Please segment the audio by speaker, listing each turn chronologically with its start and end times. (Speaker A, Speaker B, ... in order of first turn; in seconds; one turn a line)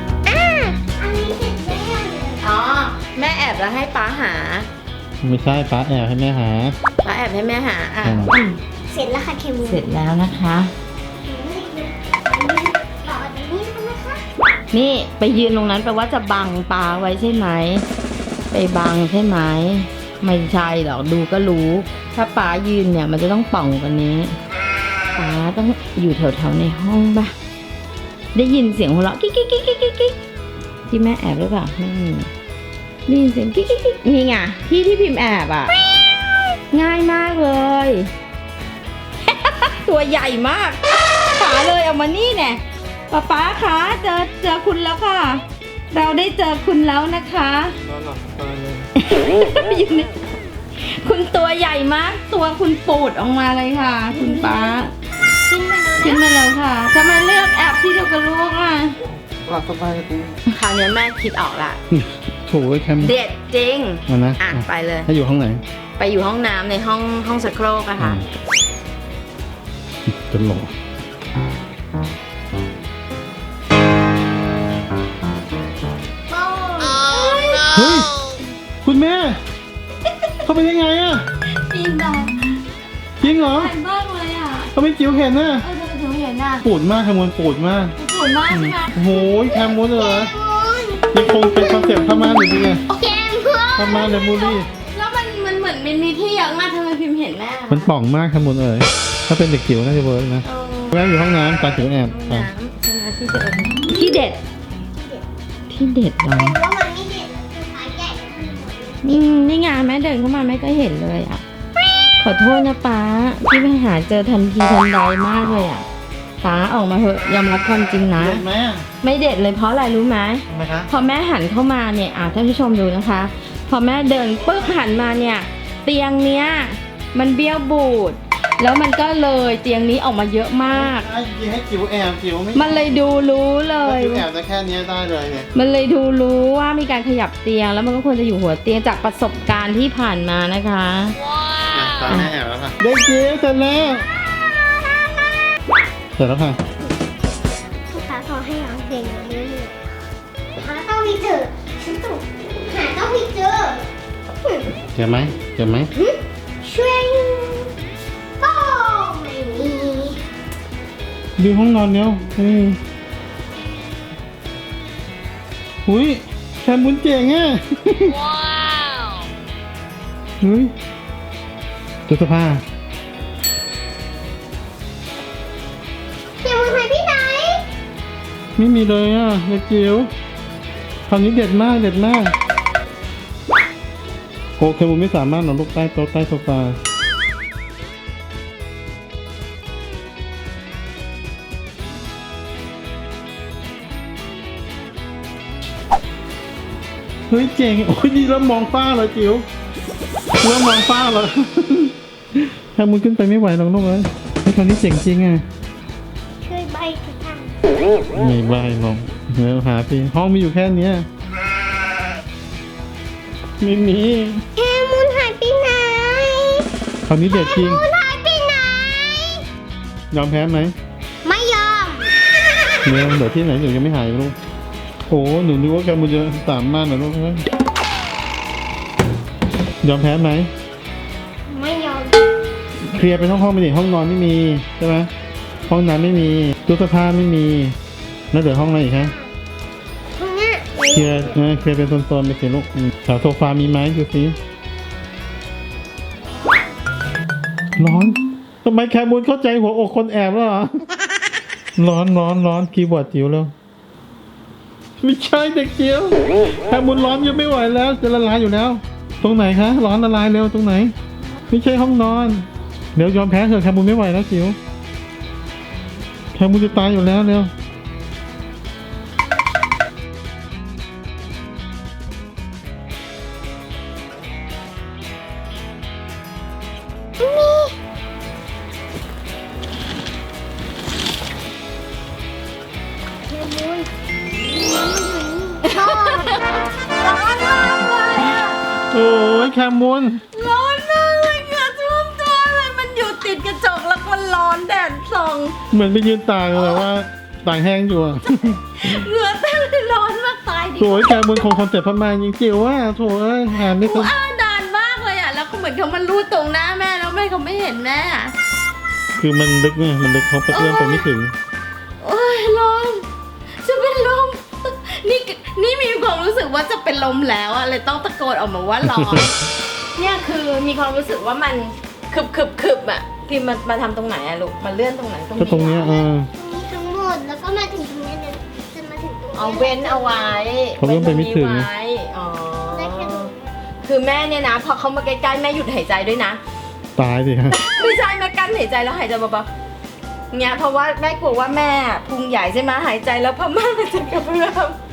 Speaker A: 0.2-2.4
Speaker B: 2.4-4.7
Speaker C: 5.2-6.7
Speaker B: 7.0-8.6
Speaker C: 8.0-8.3
Speaker A: 8.9-9.8
Speaker B: 9.6-10.7
Speaker A: 11.2-14.2
Speaker B: 14.7-17.8
Speaker B: 18.5-24.4
Speaker B: 25.1-27.3
Speaker B: 28.3-30.1
Speaker B: 30.9-32.3
Speaker B: 33.1-35.7
Speaker B: 36.7-38.1
Speaker B: 39.2-47.8
Speaker C: 47.9-48.8
Speaker B: 49.0-50.1
Speaker B: 50.8-54.9
Speaker A: 54.1-54.8
Speaker A: 55.4-56.2
Speaker B: 56.0-59.0
Speaker C: 59.2-60.4
Speaker B: 60.5-61.8
Speaker C: 61.9-63.1
Speaker B: 63.0-65.1
Speaker C: 64.1-65.6
Speaker B: 66.0-68.2
Speaker C: 68.0-68.2
Speaker C: 70.1-70.7
Speaker A: 76.3-77.7
Speaker B: 76.8-77.7
Speaker C: 77.7-78.1
Speaker C: 78.8-79.4
Speaker C: 80.4-81.2
Speaker B: 81.5-82.6
Speaker C: 83.2-83.7
Speaker B: 83.2-84.7
Speaker C: 84.7-85.7
Speaker B: 85.6-86.6
Speaker C: 86.6-87.9
Speaker B: 88.0-89.0
Speaker C: 88.5-90.3
Speaker A: 89.1-94.6
Speaker C: 91.1-92.8
Speaker C: 93.8-94.7
Speaker B: 94.7-97.9
Speaker C: 97.7-102.5
Speaker B: 100.4-104.4
Speaker A: 104.9-105.2
Speaker B: 105.7-106.6
Speaker A: 106.3-109.2
Speaker B: 109.0-111.4
Speaker A: 111.8-112.1
Speaker B: 112.2-115.8
Speaker B: 116.4-118.4
Speaker C: 118.2-118.9
Speaker B: 119.0-131.1
Speaker C: 120.5-120.9
Speaker C: 130.7-132.8
Speaker B: 132.5-134.2
Speaker C: 133.8-135.5
Speaker B: 135.5-141.2
Speaker C: 141.7-144.1
Speaker B: 142.1-142.3
Speaker C: 146.2-146.6
Speaker A: 147.9-149.8
Speaker A: 150.6-153.8
Speaker C: 154.9-155.9
Speaker A: 155.9-157.7
Speaker A: 158.4-160.2
Speaker C: 161.4-162.8
Speaker C: 165.8-168.2
Speaker C: 170.4-170.7
Speaker C: 172.1-172.6
Speaker A: 176.4-177.6
Speaker C: 178.6-180.1
Speaker C: 181.1-182.3
Speaker C: 184.6-186.8
Speaker C: 197.3-199.4
Speaker C: 200.4-205.4
Speaker A: 206.4-207.6
Speaker C: 208.1-211.1
Speaker C: 213.6-214.4
Speaker A: 214.6-216.7
Speaker C: 217.1-217.8
Speaker A: 217.3-219.4
Speaker C: 220.1-220.7
Speaker A: 221.2-222.1
Speaker C: 222.8-224.3
Speaker C: 225.1-227.4
Speaker C: 229.8-230.5
Speaker A: 231.5-232.2
Speaker C: 232.8-235.1
Speaker C: 235.7-237.8
Speaker C: 238.3-239.1
Speaker A: 240.2-241.3
Speaker C: 240.9-244.4
Speaker C: 247.8-250.8
Speaker C: 251.8-253.5
Speaker C: 255.0-260.9
Speaker C: 261.5-264.6
Speaker C: 266.3-267.5
Speaker A: 277.2-277.7
Speaker A: 283.3-283.9
Speaker A: 284.6-286.4
Speaker B: 285.6-288.6
Speaker C: 288.9-290.2
Speaker B: 290.3-295.6
Speaker C: 295.7-298.9
Speaker B: 296.5-296.9
Speaker B: 298.4-301.5
Speaker C: 300.8-304.1
Speaker B: 303.5-308.3
Speaker C: 309.2-311.3
Speaker B: 310.5-311.1
Speaker B: 312.0-313.1
Speaker B: 313.6-319.4
Speaker C: 318.8-319.2
Speaker B: 319.9-326.0
Speaker C: 325.4-326.3
Speaker A: 325.7-330.3
Speaker B: 329.3-333.3
Speaker C: 330.8-331.7
Speaker A: 332.7-333.5
Speaker B: 333.8-336.4
Speaker C: 336.9-337.6
Speaker B: 337.5-339.5
Speaker B: 340.3-344.8